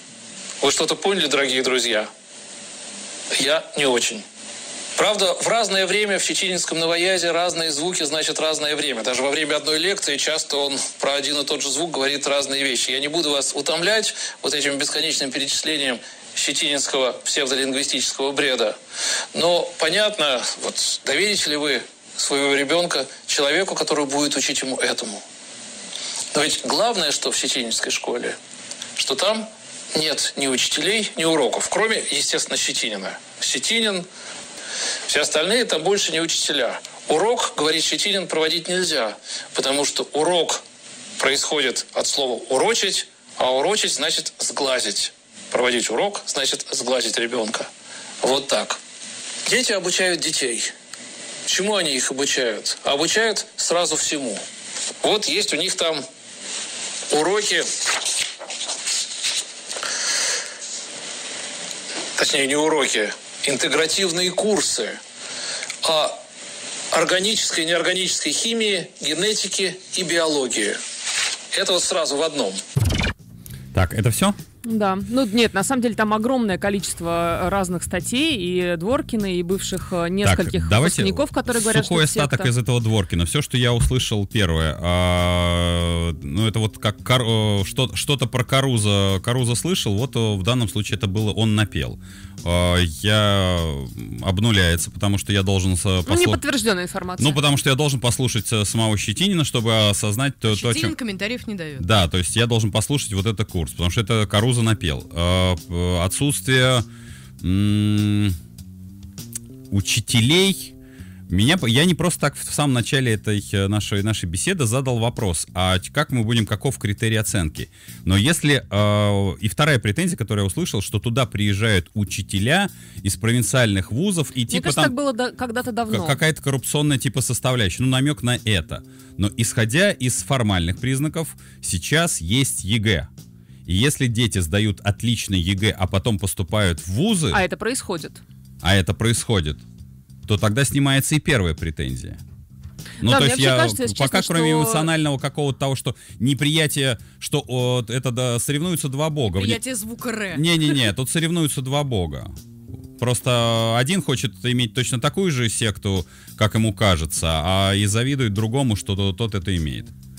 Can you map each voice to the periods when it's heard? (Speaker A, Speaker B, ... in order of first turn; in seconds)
Speaker A: 0.6-2.1, 3.3-4.2, 5.0-18.8, 19.3-25.2, 26.3-28.4, 29.0-34.1, 35.1-40.6, 41.2-47.7, 48.2-48.8, 49.5-50.7, 51.5-54.4, 55.0-56.0, 57.1-57.7, 62.2-65.0, 65.8-66.2, 66.9-70.8, 71.5-72.6
Speaker B: 73.7-74.4, 80.2-96.4, 97.2-100.9, 101.8-106.8, 107.4-108.3, 109.7-110.7, 111.3-124.9, 125.9-133.1, 133.7-137.4, 138.6-139.6, 140.3-142.2, 143.0-149.6, 150.3-152.3, 153.0-159.9
Speaker C: 74.6-82.5, 96.1-97.4, 124.5-126.2, 137.3-138.2, 143.0-144.9
Speaker D: 100.5-101.8, 149.3-150.8